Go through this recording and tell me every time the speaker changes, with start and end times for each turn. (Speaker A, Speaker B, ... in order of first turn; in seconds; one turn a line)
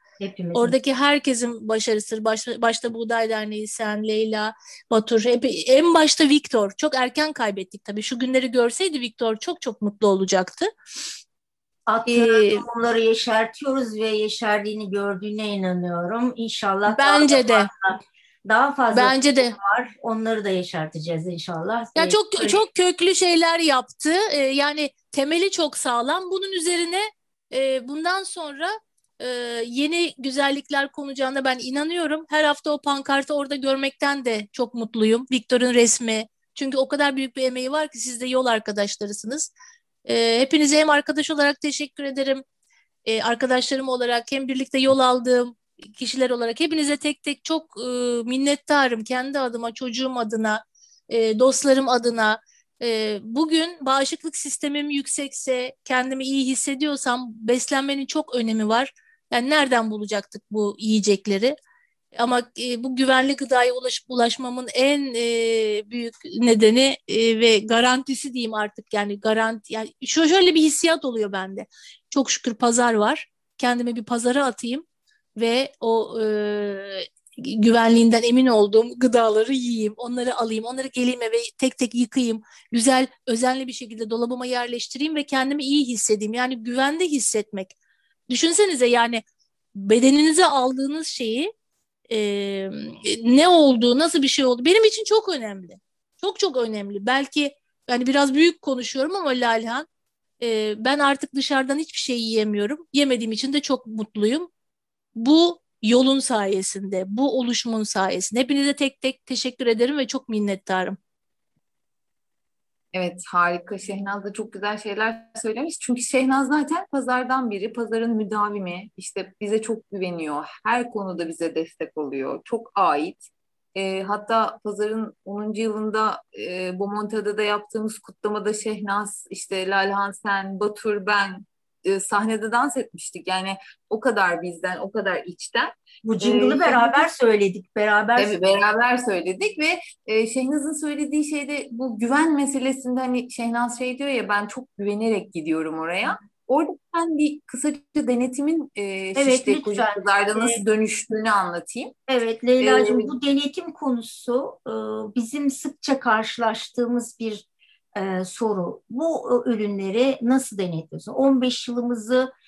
Speaker A: 0.2-0.8
Speaker B: 0.5-10.7
Speaker A: 11.9-22.6
Speaker B: 12.1-12.6
Speaker B: 16.9-17.7
Speaker B: 18.9-19.5
Speaker B: 21.9-39.5
Speaker B: 40.0-42.4
Speaker B: 43.0-61.6
Speaker B: 62.1-74.8
Speaker B: 75.3-87.7
Speaker B: 88.3-89.2
Speaker B: 89.7-91.5
Speaker B: 92.1-99.9
Speaker B: 100.4-104.5
Speaker B: 105.1-111.0
Speaker C: 112.9-137.0
Speaker A: 136.0-138.4
Speaker C: 138.2-151.9
Speaker A: 149.2-150.6
Speaker A: 152.1-162.3
Speaker C: 152.6-153.1